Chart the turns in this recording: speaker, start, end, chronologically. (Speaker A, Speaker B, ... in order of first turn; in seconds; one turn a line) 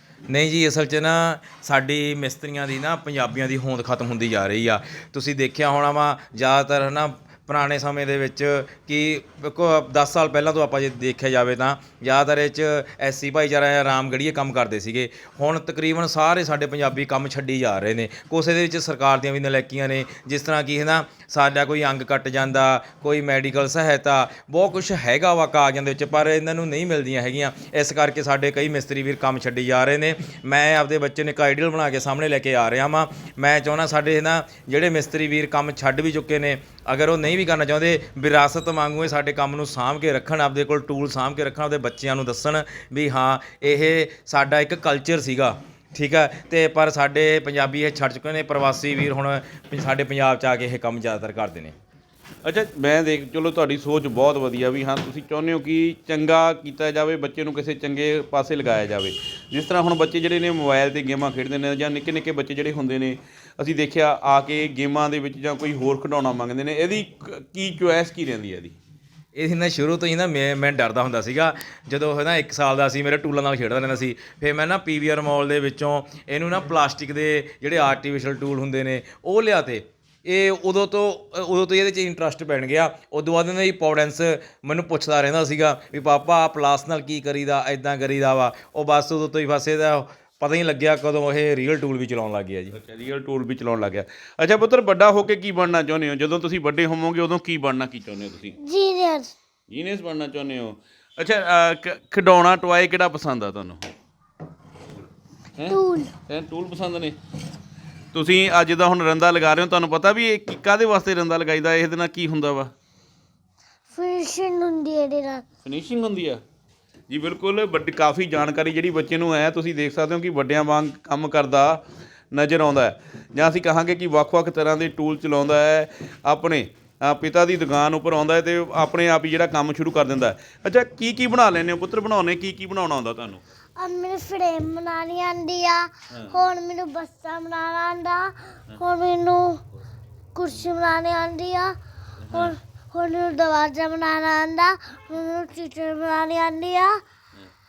Speaker A: 0.3-51.7
Speaker B: 52.4-68.8
Speaker A: 69.3-92.7
Speaker B: 92.7-98.6
Speaker C: 98.6-99.3
Speaker B: 99.7-103.9
Speaker B: 105.6-107.2
Speaker C: 105.7-106.1
Speaker B: 108.1-112.7
Speaker C: 113.9-115.4
Speaker B: 115.6-116.4
Speaker B: 117.1-133.4
Speaker C: 133.8-139.6
Speaker B: 136.1-136.3
Speaker C: 140.3-141.7
Speaker B: 142.3-142.5
Speaker C: 142.3-147.0